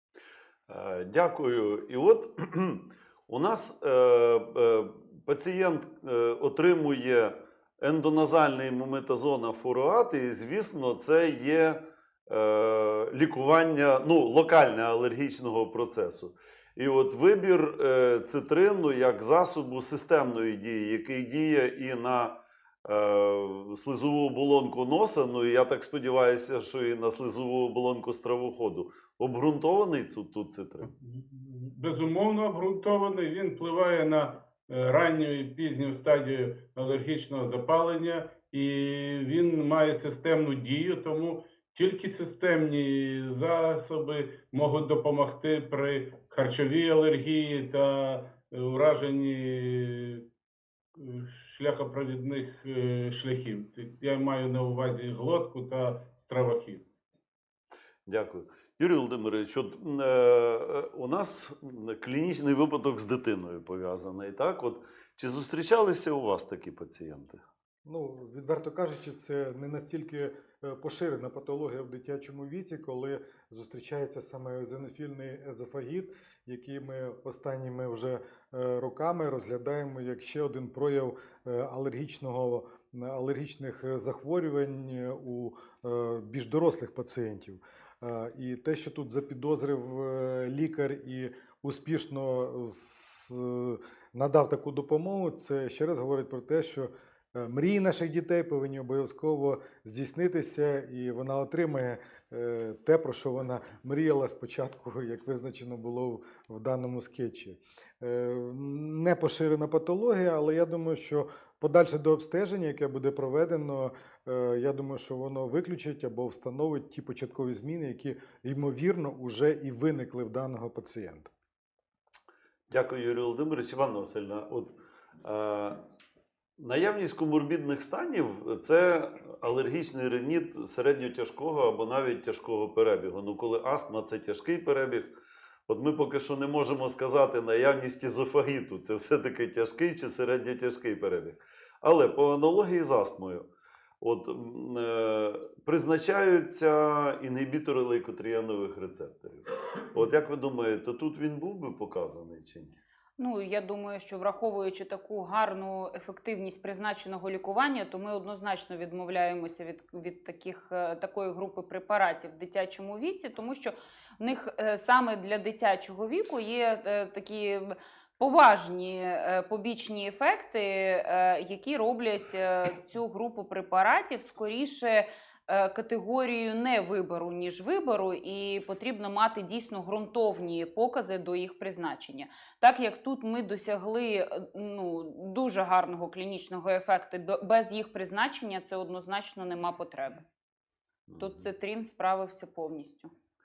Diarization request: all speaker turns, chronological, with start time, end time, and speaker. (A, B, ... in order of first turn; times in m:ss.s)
0:00.7-0:30.9 A
0:31.0-0:50.2 B
0:51.0-0:56.8 B
0:58.0-1:07.4 A
1:07.8-2:01.3 C
2:02.7-2:05.8 A
2:06.6-2:15.1 A
2:15.7-2:23.5 A
2:24.0-2:32.8 A
2:33.2-3:10.2 D
3:11.1-3:11.4 A
3:11.2-3:13.1 D